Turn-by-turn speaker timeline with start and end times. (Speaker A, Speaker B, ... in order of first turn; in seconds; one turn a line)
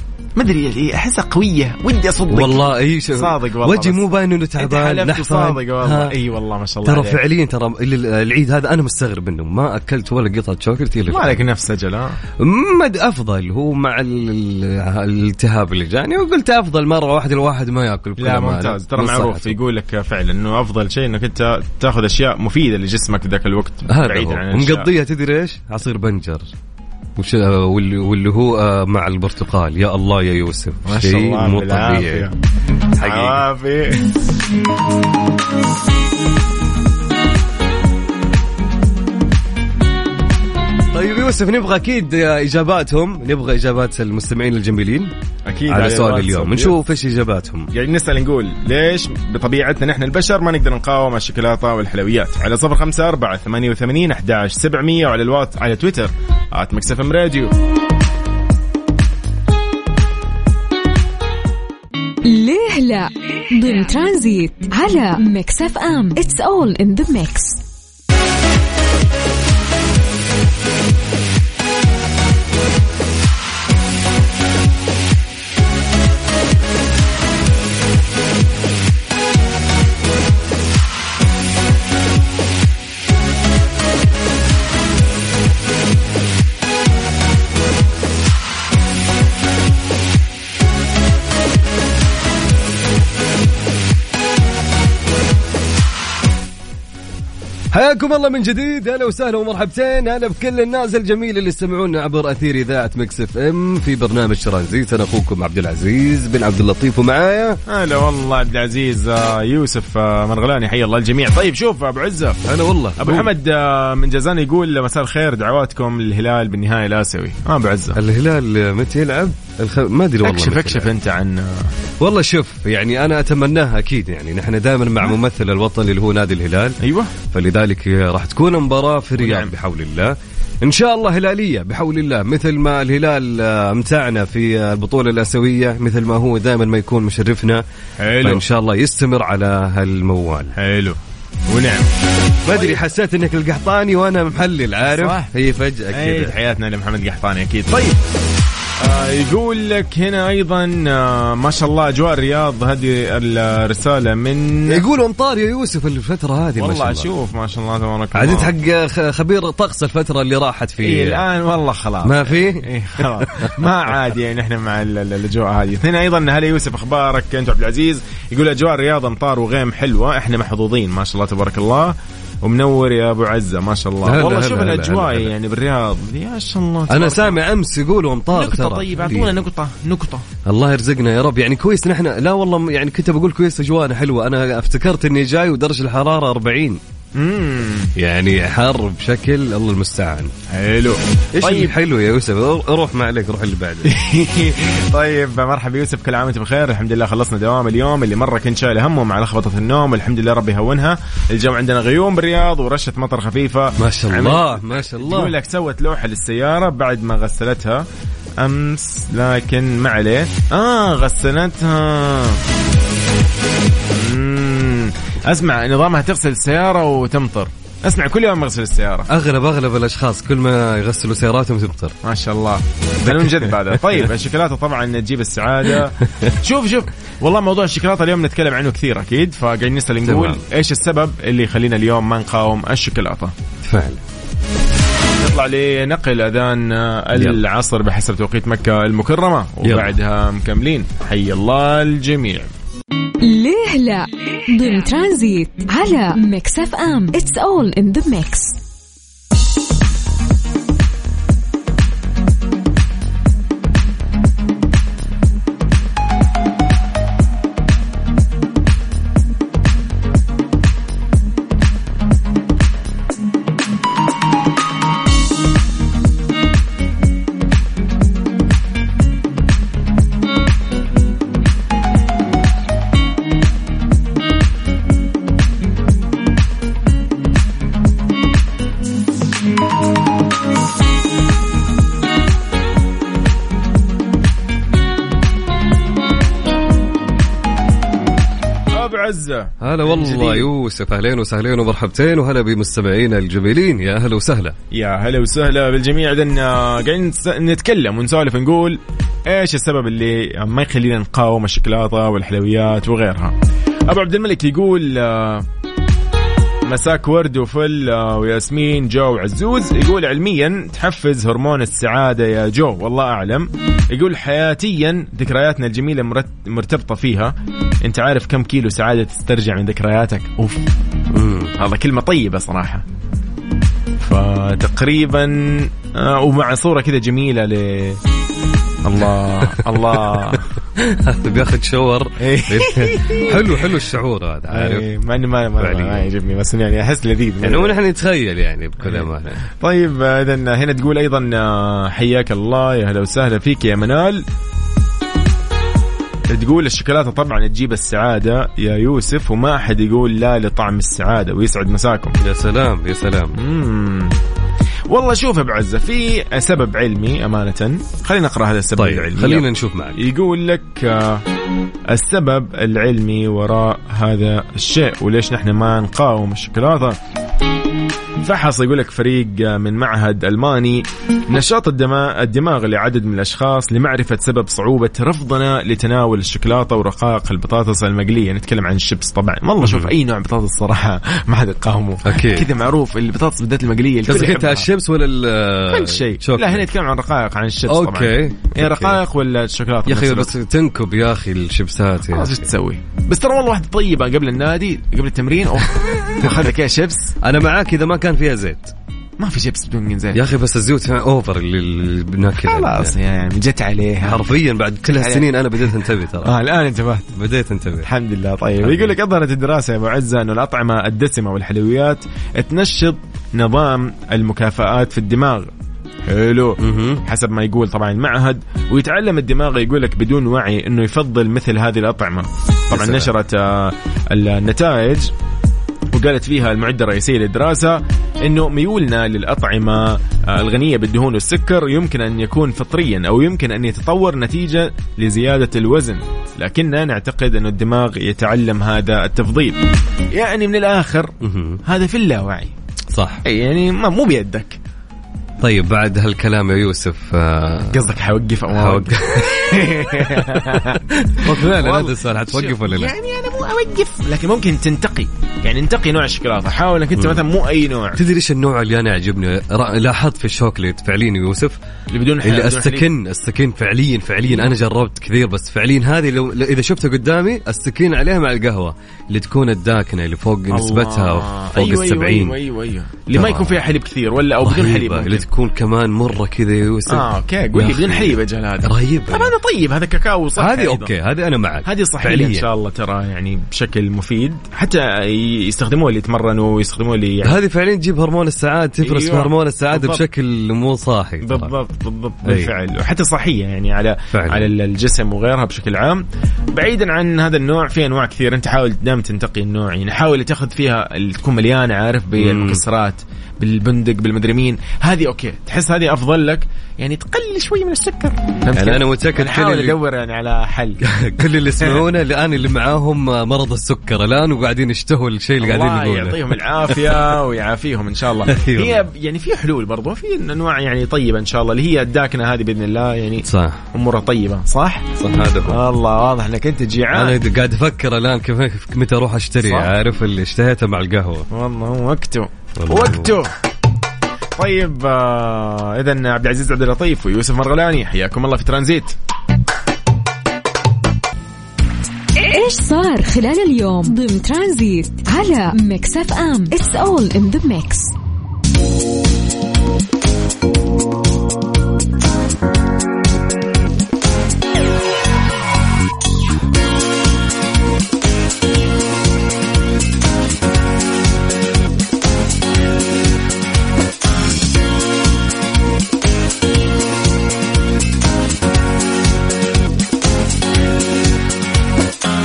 Speaker A: 0.3-4.0
Speaker B: 2.3-6.2
Speaker A: 4.6-7.2
Speaker B: 6.8-11.4
Speaker A: 11.1-12.2
Speaker B: 12.4-19.6
Speaker A: 18.2-24.9
Speaker B: 23.9-26.5
Speaker B: 27.2-32.3
Speaker A: 30.9-32.3
Speaker B: 33.0-33.4
Speaker A: 33.0-34.1
Speaker B: 40.9-45.1
Speaker A: 45.5-46.8
Speaker B: 45.7-47.7
Speaker A: 47.7-57.5
Speaker C: 62.2-67.6
Speaker B: 97.7-107.6
Speaker A: 107.7-112.4
Speaker B: 112.5-113.3
Speaker A: 113.0-118.0
Speaker B: 118.0-120.9
Speaker A: 120.2-121.7
Speaker B: 122.0-126.8
Speaker A: 126.8-127.1
Speaker B: 127.3-137.6
Speaker A: 129.2-129.5
Speaker A: 138.0-138.4
Speaker B: 138.2-140.5
Speaker A: 140.6-141.0
Speaker A: 141.5-141.9
Speaker B: 142.4-146.3
Speaker A: 142.5-142.8
Speaker A: 144.9-145.3
Speaker A: 145.9-148.0
Speaker A: 148.8-154.9
Speaker B: 154.7-157.1
Speaker A: 156.6-158.5
Speaker B: 158.1-161.2
Speaker A: 160.8-177.4
Speaker B: 162.0-163.6
Speaker B: 174.0-175.3
Speaker B: 176.9-179.3
Speaker A: 178.3-180.2
Speaker B: 180.4-186.8
Speaker A: 187.1-187.9
Speaker B: 188.0-190.3
Speaker A: 190.5-191.7
Speaker B: 191.3-193.9
Speaker A: 193.8-207.8
Speaker B: 203.8-205.3
Speaker A: 208.4-212.4
Speaker A: 213.9-219.1
Speaker B: 219.1-221.9
Speaker A: 222.0-233.3
Speaker B: 223.1-223.3
Speaker B: 230.1-230.4
Speaker B: 233.6-234.0
Speaker A: 235.2-242.5
Speaker B: 237.1-237.4
Speaker B: 239.6-239.9
Speaker C: 243.2-248.6
Speaker A: 288.7-290.5
Speaker B: 289.6-294.5
Speaker A: 294.7-303.3
Speaker A: 303.9-305.5
Speaker A: 306.6-320.6
Speaker B: 321.1-321.5
Speaker A: 321.6-322.8
Speaker A: 324.0-328.0
Speaker A: 328.8-330.5
Speaker B: 329.6-334.9
Speaker A: 332.2-333.8
Speaker A: 334.5-337.8
Speaker B: 335.6-336.1
Speaker B: 337.4-339.4
Speaker A: 338.8-344.2
Speaker A: 346.3-352.2
Speaker B: 352.2-353.4
Speaker A: 353.4-354.1
Speaker A: 354.9-361.2
Speaker B: 358.8-360.0
Speaker A: 361.9-367.0
Speaker A: 368.2-384.7
Speaker B: 379.6-379.9
Speaker B: 382.0-382.5
Speaker B: 384.0-386.6
Speaker A: 385.7-390.3
Speaker B: 387.7-389.0
Speaker B: 389.9-392.4
Speaker A: 392.1-397.2
Speaker B: 397.2-398.7
Speaker A: 399.2-400.2
Speaker B: 400.1-402.9
Speaker A: 402.4-405.6
Speaker B: 404.0-406.4
Speaker A: 406.2-407.2
Speaker B: 407.1-407.9
Speaker A: 407.8-415.5
Speaker A: 416.0-425.1
Speaker B: 416.6-417.0
Speaker B: 422.7-423.1
Speaker A: 425.9-439.6
Speaker A: 440.1-441.1
Speaker B: 441.2-441.6
Speaker A: 441.6-442.5
Speaker B: 442.9-443.2
Speaker A: 443.2-444.6
Speaker B: 445.4-447.8
Speaker A: 447.7-458.0
Speaker B: 448.5-452.9
Speaker B: 457.9-461.6
Speaker A: 461.9-462.9
Speaker B: 462.2-472.3
Speaker A: 470.5-475.2
Speaker B: 473.1-473.6
Speaker B: 474.4-479.3
Speaker A: 476.9-480.9
Speaker B: 480.4-482.5
Speaker A: 481.6-487.4
Speaker B: 487.2-491.5
Speaker A: 488.8-490.0
Speaker A: 491.2-510.8
Speaker B: 492.2-492.5
Speaker B: 494.1-494.5
Speaker B: 502.2-502.6
Speaker B: 508.5-509.8
Speaker B: 510.8-517.1
Speaker A: 511.6-511.9
Speaker A: 515.4-524.9
Speaker B: 518.3-518.8
Speaker B: 523.2-523.6
Speaker B: 525.0-525.6
Speaker A: 525.5-527.2
Speaker B: 526.9-531.3
Speaker A: 529.4-529.7
Speaker A: 531.3-533.4
Speaker B: 532.6-533.1
Speaker A: 534.4-538.9
Speaker C: 542.2-547.9